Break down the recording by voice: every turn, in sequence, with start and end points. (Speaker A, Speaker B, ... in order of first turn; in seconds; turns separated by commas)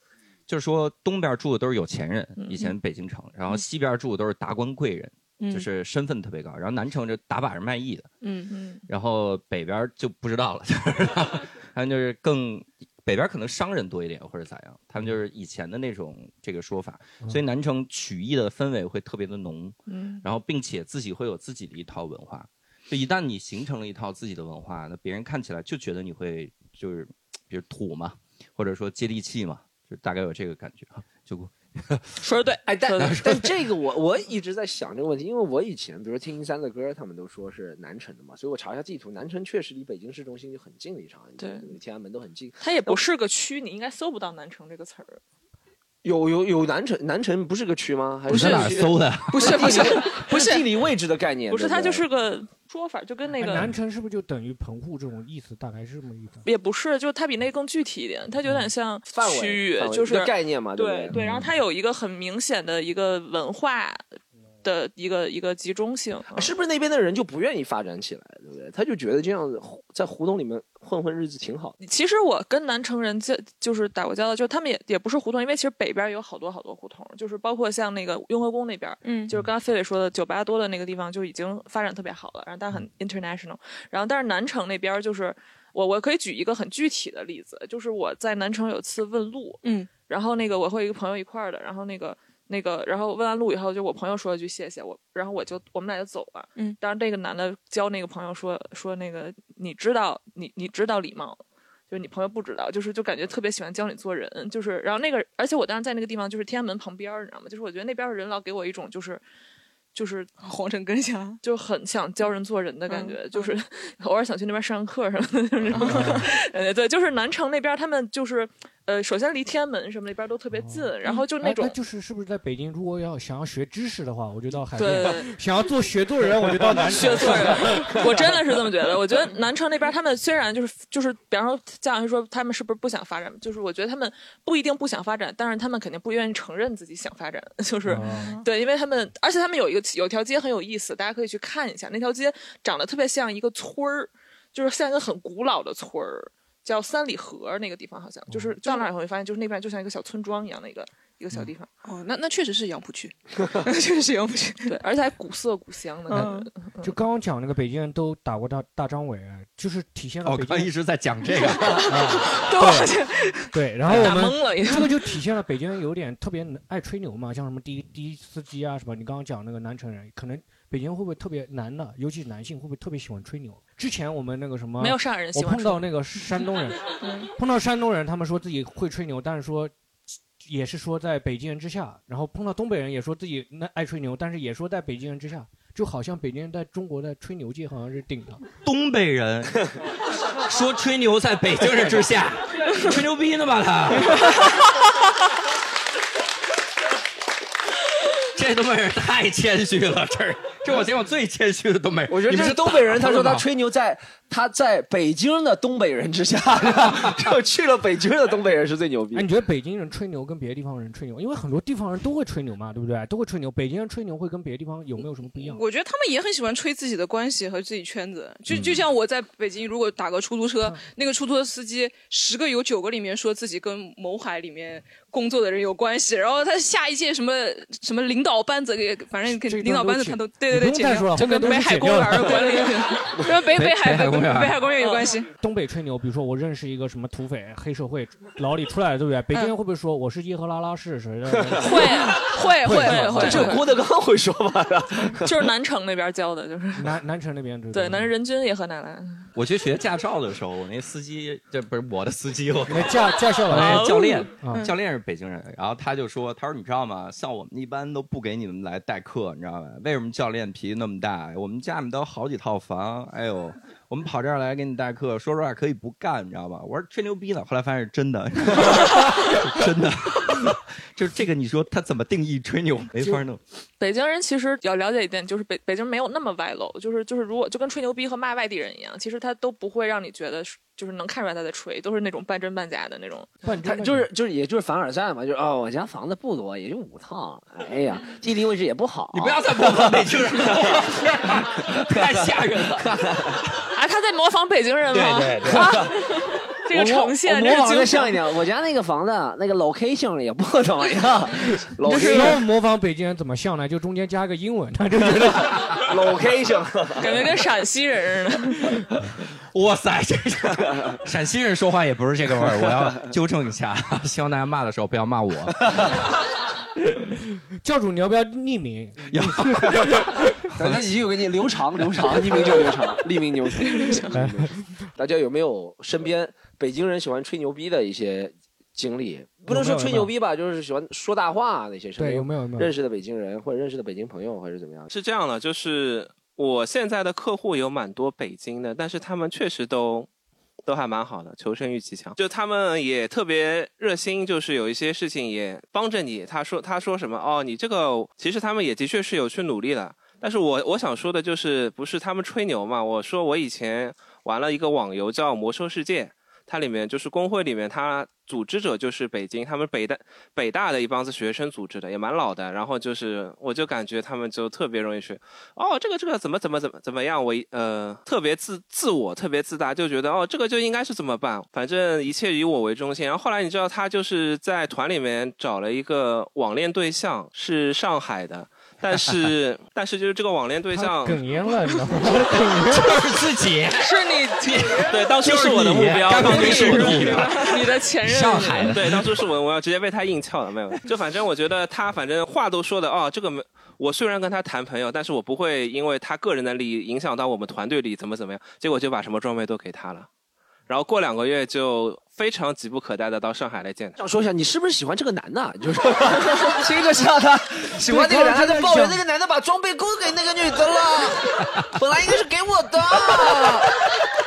Speaker A: 0.5-8.1, Speaker B: 2.4-2.7, Speaker C: 5.4-5.7, Speaker C: 8.2-8.5, Speaker B: 8.5-8.8, Speaker A: 8.9-32.2, Speaker B: 19.9-20.2, Speaker B: 32.2-33.4, Speaker D: 32.7-43.0, Speaker A: 33.0-33.5, Speaker B: 41.4-41.7, Speaker B: 42.6-45.2, Speaker D: 46.0-52.0, Speaker A: 48.3-49.9, Speaker C: 48.3-50.6, Speaker B: 51.5-53.7, Speaker E: 53.4-56.4, Speaker B: 56.4-64.0, Speaker D: 59.1-61.1, Speaker B: 64.6-66.5, Speaker D: 66.3-71.8, Speaker B: 71.8-109.2, Speaker C: 79.0-79.3, Speaker C: 89.6-89.9, Speaker B: 109.9-110.3, Speaker C: 110.4-111.4, Speaker B: 111.4-121.8, Speaker C: 112.9-113.5, Speaker C: 115.8-116.1, Speaker E: 115.8-116.3, Speaker E: 120.5-120.9, Speaker E: 121.4-128.1, Speaker B: 124.8-125.3, Speaker B: 126.8-151.7, Speaker E: 137.8-138.3, Speaker C: 148.6-148.9, Speaker C: 151.8-154.8, Speaker B: 154.7-156.9, Speaker C: 156.1-156.5, Speaker E: 156.1-160.7, Speaker A: 160.2-161.9, Speaker C: 161.5-163.6, Speaker E: 161.8-162.9, Speaker E: 163.5-179.7, Speaker A: 163.8-164.2, Speaker B: 163.9-165.0, Speaker B: 174.8-175.9, Speaker C: 177.0-177.3, Speaker E: 180.4-188.4, Speaker A: 188.6-189.7, Speaker A: 190.4-194.6, Speaker A: 198.3-203.4, Speaker D: 202.1-209.3, Speaker E: 209.1-215.6, Speaker C: 215.4-235.3, Speaker A: 218.5-218.8, Speaker E: 229.2-232.5, Speaker B: 231.4-233.2, Speaker A: 233.3-234.6, Speaker B: 234.8-235.1, Speaker E: 235.4-242.1, Speaker C: 241.6-243.6, Speaker B: 241.7-243.6, Speaker E: 242.6-243.5, Speaker D: 243.2-245.5, Speaker B: 245.2-247.0, Speaker E: 246.8-248.1, Speaker B: 247.7-249.3, Speaker A: 249.3-273.4, Speaker E: 252.7-254.7, Speaker B: 253.5-254.3, Speaker C: 254.5-254.7, Speaker B: 273.8-283.4, Speaker E: 283.4-284.1, Speaker D: 283.6-290.9, Speaker A: 289.1-293.7, Speaker D: 291.7-293.4, Speaker B: 293.7-298.2, Speaker D: 294.9-296.0, Speaker A: 295.0-295.6, Speaker D: 296.7-302.4, Speaker E: 301.9-305.7, Speaker D: 305.8-307.3, Speaker B: 307.0-308.8, Speaker A: 309.5-315.9, Speaker E: 317.6-320.3, Speaker A: 319.1-320.9, Speaker D: 320.6-334.9, Speaker C: 323.8-324.0, Speaker E: 324.1-324.5, Speaker E: 329.5-330.1, Speaker E: 332.0-332.7, Speaker F: 334.9-340.1, Speaker F: 340.6-381.2, Speaker E: 380.7-383.0, Speaker A: 382.6-389.2, Speaker B: 383.8-385.0, Speaker F: 384.9-387.3, Speaker B: 386.1-388.8, Speaker F: 388.7-400.1, Speaker F: 400.7-404.0, Speaker D: 404.0-413.7, Speaker E: 407.8-409.0